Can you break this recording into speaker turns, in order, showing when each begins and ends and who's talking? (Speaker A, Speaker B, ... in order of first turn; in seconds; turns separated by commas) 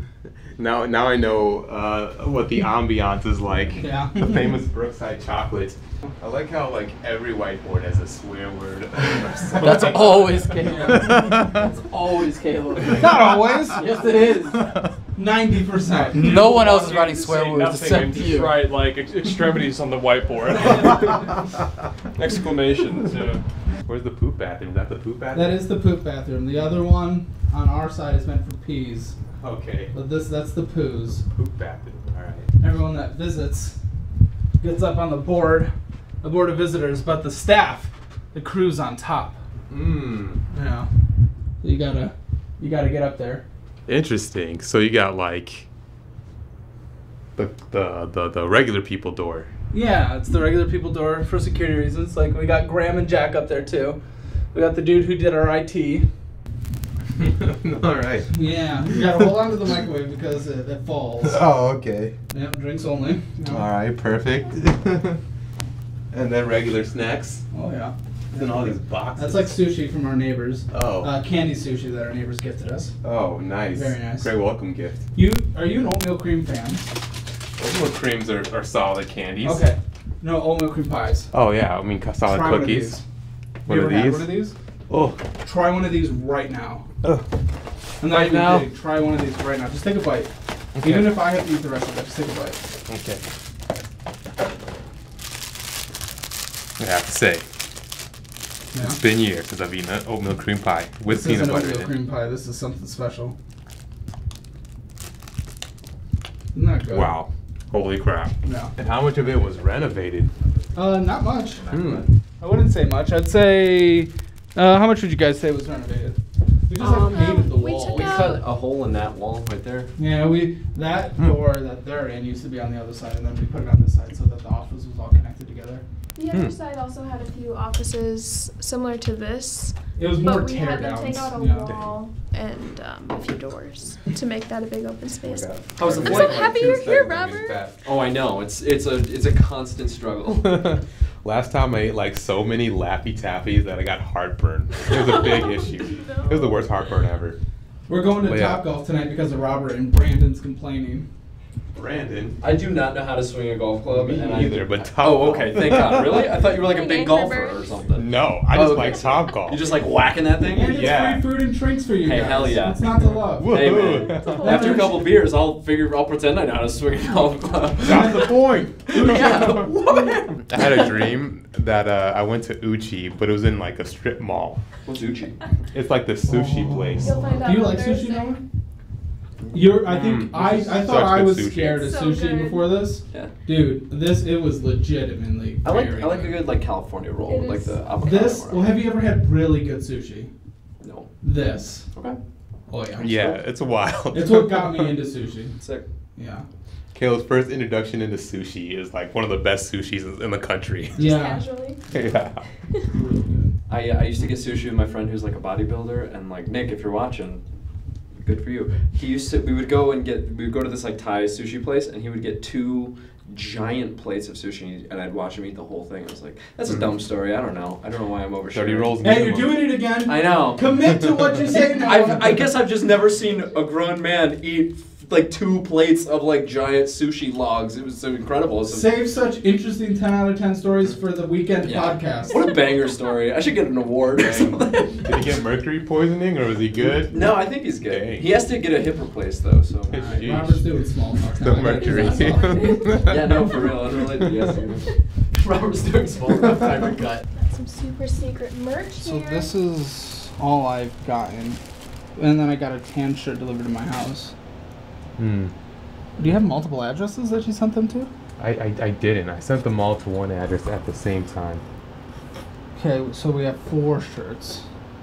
Speaker A: 0.6-11.5, Speaker B: 3.8-4.5, Speaker C: 9.6-14.8, Speaker B: 12.9-14.0, Speaker B: 15.1-16.6, Speaker C: 16.1-18.6, Speaker D: 16.2-21.5, Speaker D: 22.1-23.4, Speaker A: 23.8-25.7, Speaker B: 25.3-29.1, Speaker A: 29.4-29.9, Speaker B: 29.9-31.2, Speaker A: 31.2-32.5, Speaker B: 32.6-33.8, Speaker B: 34.6-39.4, Speaker A: 39.7-40.4, Speaker B: 40.5-40.9, Speaker B: 41.6-43.4, Speaker A: 43.9-45.7, Speaker A: 47.4-49.5, Speaker B: 49.7-54.0, Speaker B: 54.5-56.1, Speaker A: 57.2-59.2, Speaker B: 58.3-61.4, Speaker A: 61.2-62.2, Speaker B: 62.3-63.7, Speaker A: 63.5-65.2, Speaker A: 66.1-67.4, Speaker B: 67.5-73.0, Speaker A: 68.3-69.6, Speaker A: 70.7-71.1, Speaker A: 73.0-75.0, Speaker B: 73.7-74.4, Speaker B: 75.1-76.9, Speaker A: 77.6-79.7, Speaker B: 79.4-81.3, Speaker A: 81.3-83.0, Speaker B: 82.2-83.0, Speaker A: 83.6-85.2, Speaker B: 83.7-84.5, Speaker B: 85.4-86.9, Speaker B: 88.0-92.6, Speaker C: 88.2-88.5, Speaker A: 90.8-91.2, Speaker A: 92.9-93.2, Speaker A: 96.8-97.5, Speaker B: 98.7-99.0, Speaker A: 98.8-101.9, Speaker B: 101.0-103.3, Speaker B: 106.5-107.2, Speaker A: 106.9-110.3, Speaker B: 108.4-108.7, Speaker B: 110.7-118.3, Speaker E: 111.7-112.0, Speaker A: 111.7-112.0, Speaker F: 116.8-118.5, Speaker C: 116.8-117.2, Speaker E: 117.9-119.9, Speaker B: 120.0-125.8, Speaker F: 126.2-137.7, Speaker B: 129.9-131.7, Speaker A: 135.2-137.8, Speaker E: 135.5-136.6, Speaker E: 137.8-140.8, Speaker A: 140.4-147.4, Speaker F: 144.8-146.7, Speaker B: 147.9-151.1, Speaker A: 148.2-148.6, Speaker A: 151.7-152.4, Speaker E: 152.4-161.0, Speaker A: 153.9-156.4, Speaker F: 156.0-157.7, Speaker A: 158.0-159.7, Speaker B: 160.5-163.6, Speaker A: 160.7-161.2, Speaker E: 162.0-168.3, Speaker A: 163.4-164.7, Speaker F: 164.1-165.1, Speaker B: 164.4-164.9, Speaker A: 167.8-169.7, Speaker B: 167.9-169.9, Speaker E: 168.9-171.0, Speaker A: 170.5-174.6, Speaker E: 174.8-175.4, Speaker A: 175.7-177.4, Speaker B: 176.2-178.4, Speaker F: 177.0-178.4, Speaker B: 179.5-186.4, Speaker A: 179.8-181.8, Speaker F: 181.5-182.8, Speaker E: 185.6-188.7, Speaker F: 187.2-187.8, Speaker B: 188.0-190.3, Speaker E: 190.8-191.2, Speaker B: 191.2-191.9, Speaker E: 191.8-192.2, Speaker B: 192.7-193.1, Speaker A: 193.0-195.0, Speaker E: 193.0-193.3, Speaker B: 194.1-195.6, Speaker E: 195.6-195.8, Speaker B: 196.2-196.4, Speaker A: 196.9-201.0, Speaker B: 201.0-201.4, Speaker F: 201.0-201.8, Speaker A: 201.9-202.4, Speaker B: 202.9-203.5, Speaker E: 203.7-207.4, Speaker E: 208.1-221.0, Speaker A: 216.6-216.9, Speaker A: 218.5-219.7, Speaker B: 219.0-222.5, Speaker E: 221.5-228.9, Speaker B: 228.7-232.4, Speaker E: 231.6-235.1, Speaker F: 232.3-233.2, Speaker A: 235.0-238.3, Speaker E: 237.1-240.3, Speaker A: 239.9-240.8, Speaker B: 239.9-242.8, Speaker A: 241.4-243.4, Speaker F: 241.6-244.7, Speaker E: 243.0-247.2, Speaker F: 247.3-249.5, Speaker B: 249.0-251.6, Speaker B: 252.2-254.3, Speaker A: 255.2-255.5, Speaker B: 256.2-258.1, Speaker A: 258.4-261.6, Speaker B: 262.8-264.6